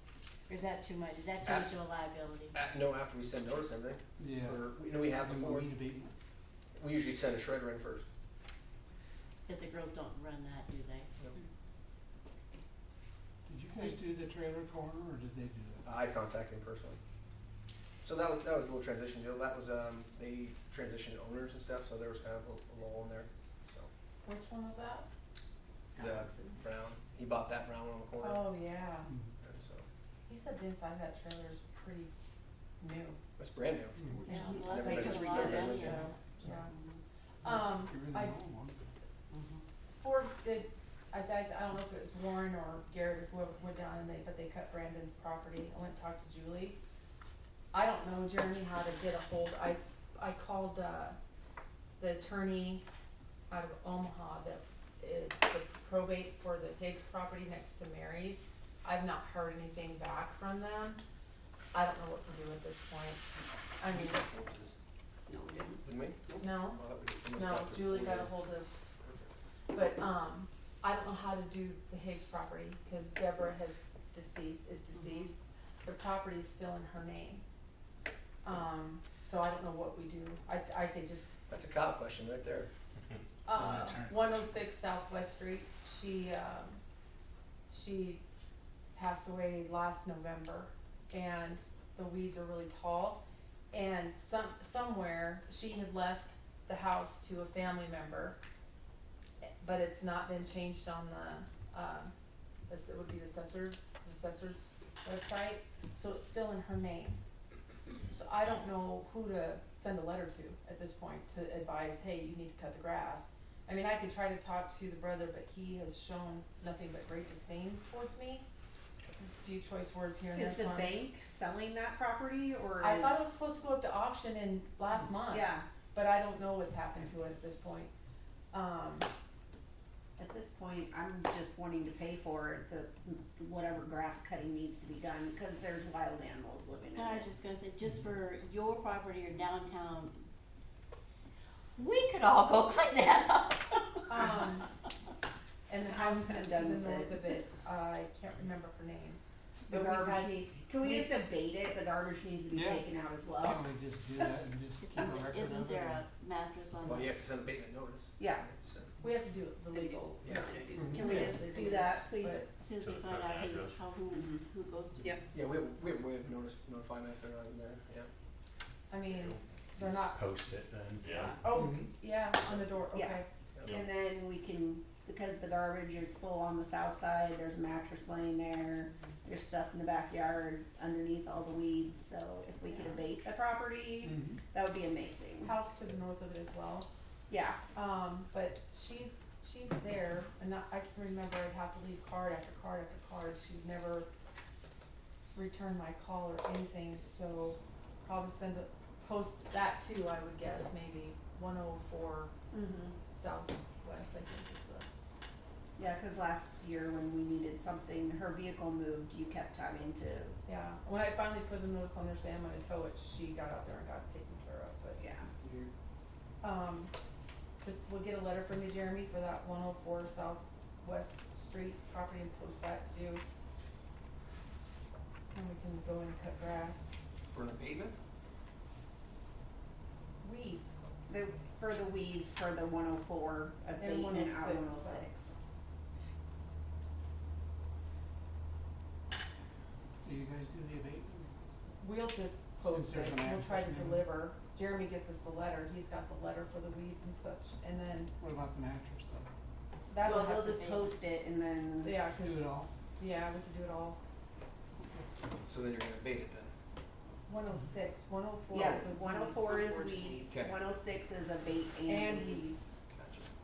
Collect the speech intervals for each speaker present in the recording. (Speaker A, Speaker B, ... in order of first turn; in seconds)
Speaker A: 0.5-2.5, 9.5-11.4, 25.9-26.7, 34.2-37.0, 136.9-140.3, 141.8-144.2, 154.8-157.2, 162.6-165.2, 250.4-250.9
Speaker B: 1.4-1.7, 2.5-5.8, 6.8-8.1, 15.8-17.0, 18.0-23.9, 26.0-28.5, 29.4-29.9, 33.4-34.0, 34.5-36.0, 63.9-64.8, 65.8-68.3, 69.0-69.3, 81.5-82.7, 156.8-158.9, 160.2-160.6, 165.3-168.1, 215.4-215.7, 227.3-227.9, 255.3-256.5, 260.3-260.6, 262.9-263.3
Speaker C: 4.2-6.1, 13.5-15.8, 34.0-34.4, 37.4-38.7, 152.5-152.8, 153.4-156.1, 160.7-161.1, 171.5-171.9, 184.0-184.4, 240.0-241.2, 242.6-244.1, 248.2-249.3, 252.1-252.7
Speaker D: 24.2-25.1, 28.2-29.1, 30.3-32.1, 32.8-33.2, 34.2-36.7, 37.4-38.4, 40.0-46.8, 47.7-51.2, 52.0-52.8, 53.5-61.0, 61.7-63.2, 63.8-64.2, 66.4-66.8, 67.3-68.8, 69.7-77.4, 78.4-81.3, 83.5-86.8, 87.7-88.2, 88.9-98.4, 99.6-102.1, 102.7-107.2, 108.1-118.4, 119.4-121.0, 122.8-127.9, 128.5-129.1, 144.1-144.7, 145.7-151.3, 159.0-162.5, 168.9-170.2, 171.1-173.2, 185.4-186.9, 187.7-194.1, 195.3-202.3, 203.1-204.8, 210.5-215.0, 216.4-216.9, 217.6-223.2, 225.3-226.9, 230.2-230.7, 233.8-235.1, 241.8-248.1, 249.9-250.8, 251.8-254.0, 257.3-260.3, 261.9-262.6
Speaker E: 65.3-66.5, 74.9-75.3, 120.3-123.3, 125.3-125.7, 130.2-137.3, 145.9-147.2, 149.7-153.7, 158.2-158.4, 160.3-162.5, 172.9-185.6, 187.3-187.6, 202.5-203.0, 205.8-210.3, 215.0-215.3, 231.1-235.3, 250.0-252.0, 258.5-262.6
Speaker F: 161.0-161.4, 162.8-163.8, 169.1-171.4